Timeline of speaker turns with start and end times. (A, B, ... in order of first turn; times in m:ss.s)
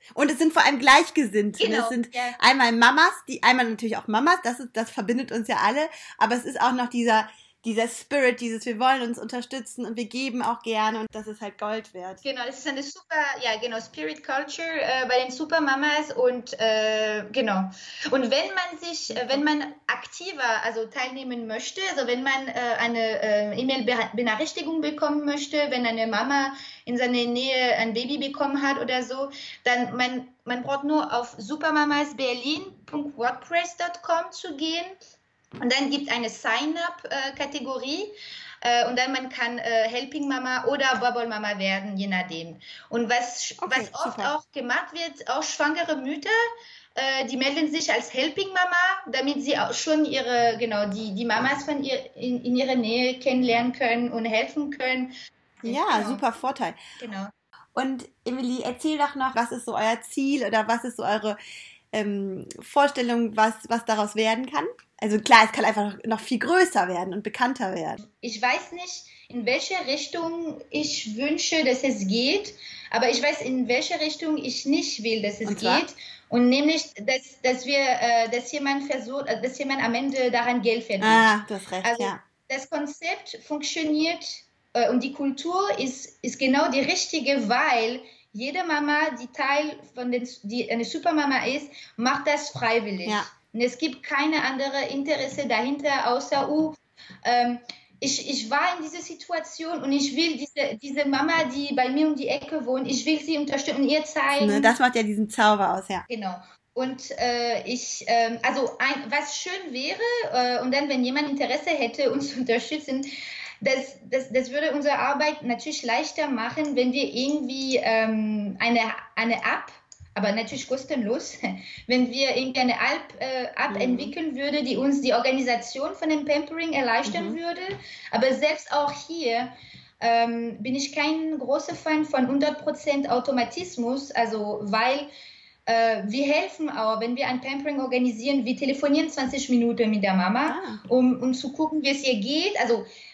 0:00.1-0:12.2 A
0:01.6-0:02.4 B
0:12.2-0:34.9 B
0:19.1-0:19.4 A
0:35.6-0:46.3 B
0:43.6-0:44.3 A
0:47.0-0:55.1 B
0:55.6-0:56.2 B
0:55.6-0:56.8 A
0:57.0-0:57.3 B
0:57.7-1:01.4 A
1:01.9-1:08.0 A
1:08.0-1:21.3 B
1:15.4-1:15.8 A
1:21.0-1:22.2 A
1:21.8-1:44.7 B
1:44.4-1:46.0 A
1:46.1-1:53.0 B
1:53.6-2:09.5 B
2:03.7-2:04.1 A
2:07.0-2:07.4 A
2:10.0-2:15.1 B
2:15.7-2:22.8 B
2:20.5-2:20.8 A